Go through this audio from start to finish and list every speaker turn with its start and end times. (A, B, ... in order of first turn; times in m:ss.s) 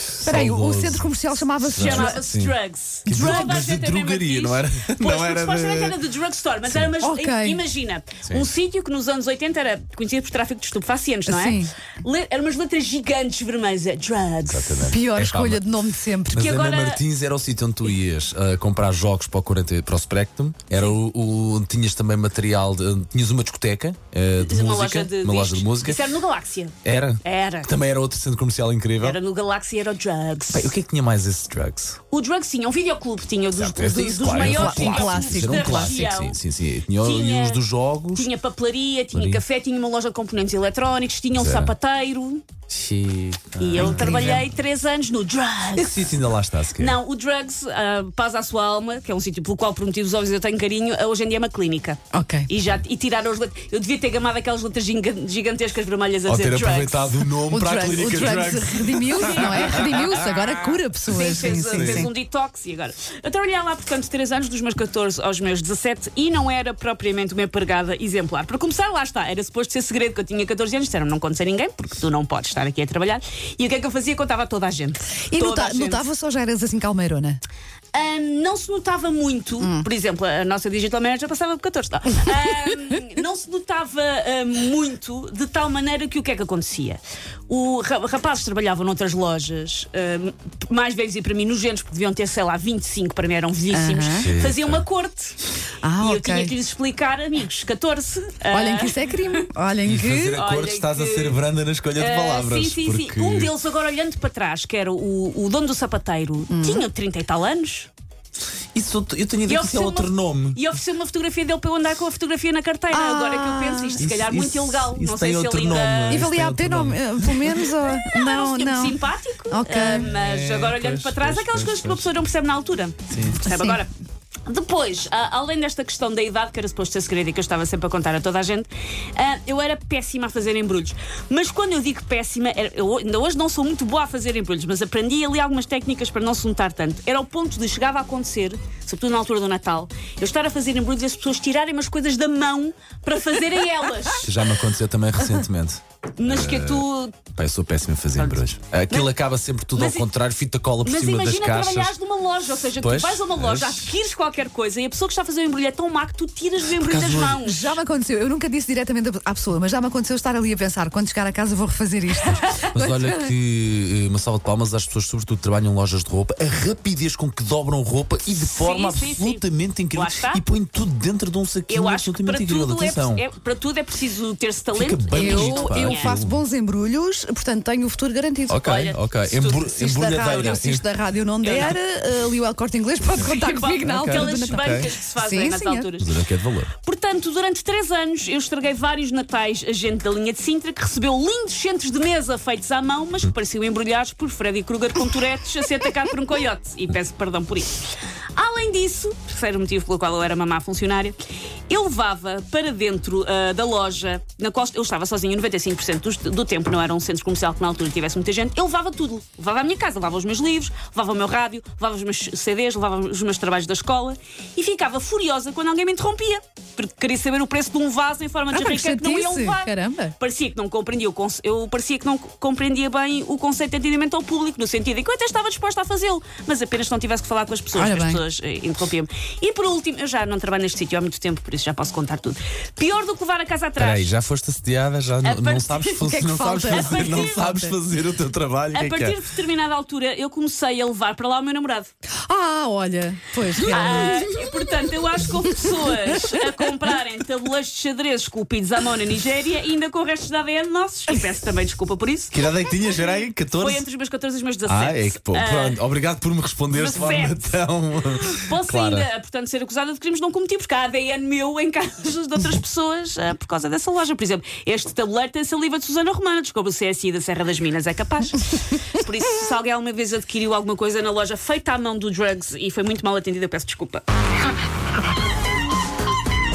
0:00.2-0:02.6 A
0:00.2-0:02.2 B
0:01.7-0:14.9 C
0:03.1-0:06.0 A
0:06.7-0:06.9 A
0:07.0-0:07.6 B
0:11.3-0:11.7 B
0:14.4-0:15.6 A
0:14.9-0:16.4 B
0:16.3-0:17.0 C
0:16.3-0:26.1 A
0:24.4-0:27.8 C
0:26.8-0:29.2 A
0:29.0-0:30.7 C
0:30.5-0:32.0 A
0:32.1-0:36.4 C
0:33.5-0:38.3 A
0:34.5-0:36.0 B
0:37.0-0:42.4 C
0:39.1-0:39.4 A
0:41.3-0:41.7 A
0:42.7-0:44.5 A
0:43.6-0:46.2 C
0:43.8-0:44.3 B
0:45.8-0:47.0 A
0:46.7-0:57.2 C
0:52.1-0:52.5 B
0:56.3-1:00.2 A
0:57.5-1:02.1 B
0:59.1-1:16.0 C
1:01.7-1:02.1 A
1:15.3-1:17.4 B
1:17.9-1:35.4 C
1:19.6-1:19.9 B
1:33.7-1:34.3 B
1:34.2-1:34.8 A
1:35.8-1:36.5 B
1:36.0-1:39.5 C
1:38.5-1:40.4 B
1:39.9-1:43.5 A
1:40.4-1:41.4 C
1:42.0-1:47.9 C
1:46.5-1:46.9 B
1:48.7-1:50.6 A
1:49.5-1:56.3 C
1:52.9-1:54.0 B
1:54.0-1:57.5 A
1:56.1-1:59.0 B
1:57.6-2:03.9 C
1:59.5-2:00.2 B
2:00.0-2:02.2 A
2:03.1-2:03.4 A
2:03.4-2:03.8 B
2:04.5-2:24.3 C
2:24.2-2:32.0 A
2:26.2-2:27.2 C
2:28.2-2:29.1 C
2:29.7-2:30.1 C
2:30.8-2:37.8 C
2:32.8-2:33.9 A
2:36.8-2:37.4 A
2:37.4-2:43.3 B
2:42.7-2:53.2 A
2:48.5-2:50.4 C
2:51.7-2:56.2 C
2:54.7-2:56.4 A
2:55.1-2:58.7 B
2:58.5-3:00.8 A
2:58.7-2:59.6 C
2:59.5-3:05.9 B
3:01.4-3:01.8 C
3:03.1-3:06.1 C
3:03.8-3:04.9 A
3:06.0-3:06.7 A
3:06.8-3:17.8 C
3:18.4-3:21.2 C
3:21.7-3:54.1 C
3:38.5-3:40.1 B
3:47.7-3:48.2 B
3:53.8-3:59.2 A
3:55.2-3:56.1 C
3:56.0-3:57.8 B
3:56.7-3:57.5 C
3:58.7-4:01.9 C
4:02.3-4:04.3 B
4:03.6-4:15.8 C
4:05.9-4:06.4 B
4:12.3-4:13.8 A
4:14.6-4:19.1 A
4:16.7-4:17.6 C
4:18.2-4:34.0 C